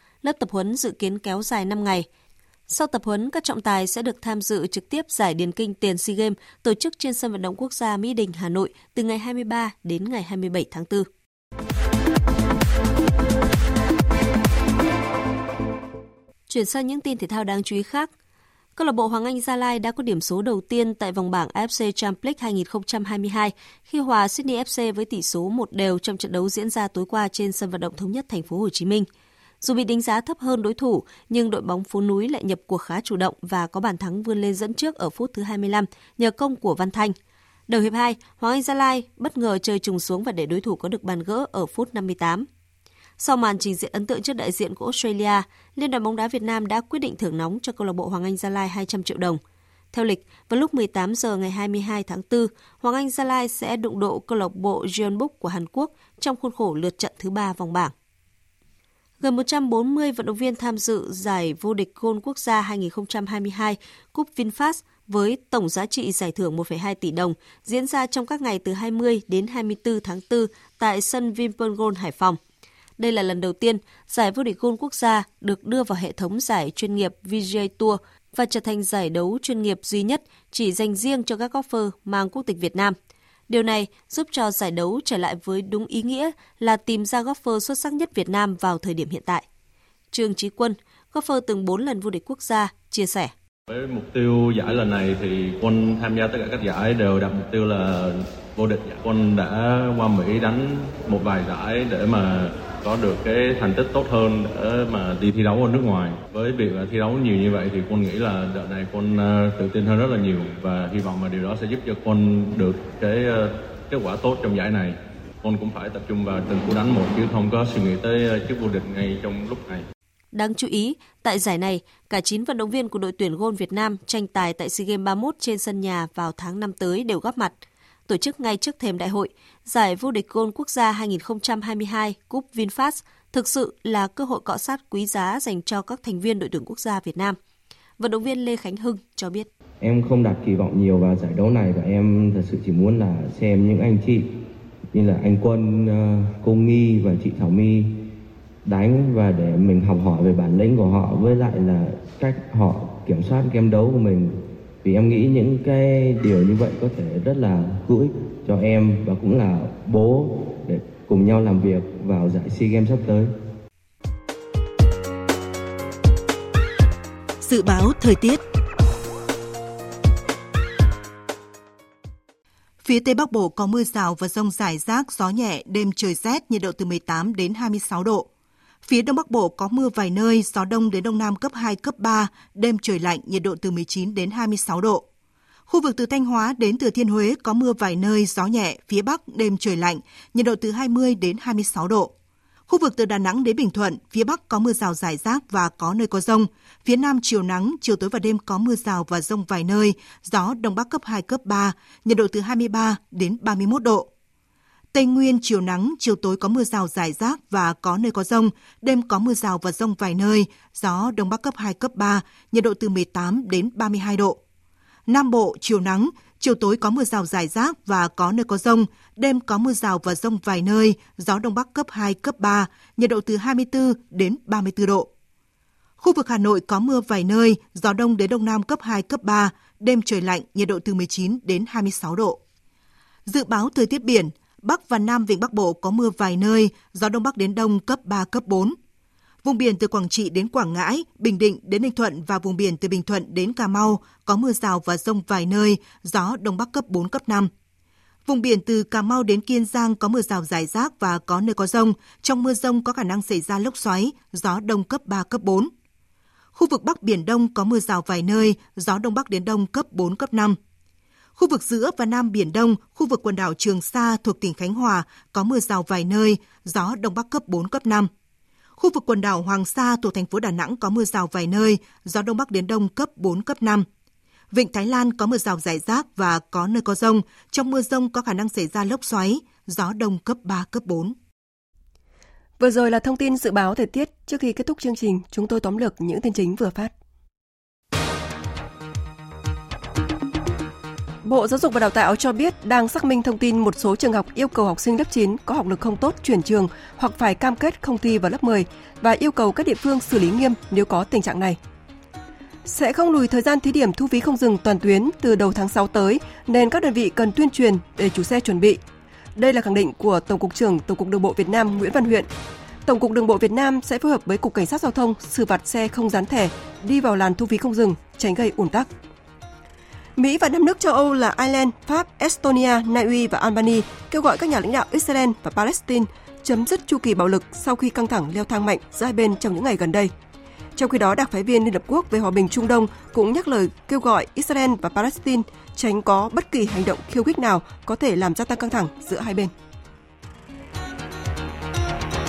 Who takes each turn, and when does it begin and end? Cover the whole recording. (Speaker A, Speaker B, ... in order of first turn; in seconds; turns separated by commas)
Speaker A: 0.2-2.1, Speaker A: 2.7-11.1, Speaker A: 16.5-18.1, Speaker A: 18.8-29.1, Speaker A: 29.6-37.1, Speaker A: 37.7-42.5, Speaker A: 43.2-49.4, Speaker A: 49.9-57.9, Speaker A: 59.2-72.4, Speaker A: 73.0-83.0, Speaker A: 83.5-89.4, Speaker A: 90.1-93.3, Speaker B: 93.9-97.8, Speaker B: 98.6-102.4, Speaker B: 103.0-109.1, Speaker B: 109.6-113.4, Speaker B: 113.9-114.9, Speaker B: 115.5-119.8, Speaker C: 116.5-117.2, Speaker C: 118.7-119.7, Speaker A: 120.3-127.6, Speaker A: 128.1-137.4, Speaker A: 138.0-139.5, Speaker C: 139.8-144.3, Speaker C: 144.9-147.9, Speaker C: 148.7-163.3, Speaker D: 167.4-168.4, Speaker D: 172.8-178.2, Speaker C: 176.2-176.6, Speaker C: 177.5-177.9, Speaker D: 178.9-185.0, Speaker D: 185.7-192.1, Speaker D: 192.7-204.1, Speaker C: 194.0-195.7, Speaker C: 197.0-197.3, Speaker C: 198.8-199.3, Speaker D: 204.9-214.4, Speaker C: 207.7-208.3, Speaker C: 210.8-211.2, Speaker D: 215.1-225.1, Speaker D: 226.0-232.4, Speaker D: 233.3-238.7, Speaker D: 239.5-247.5, Speaker D: 248.3-255.7, Speaker D: 256.6-260.6, Speaker D: 261.4-268.1, Speaker D: 268.8-273.8, Speaker D: 274.5-281.1, Speaker C: 275.4-275.9, Speaker C: 276.5-277.0, Speaker C: 279.1-279.8, Speaker E: 282.6-286.9, Speaker E: 291.2-301.6, Speaker E: 302.7-308.8, Speaker E: 309.4-312.3, Speaker E: 312.9-318.9, Speaker E: 320.2-330.1, Speaker E: 330.8-339.5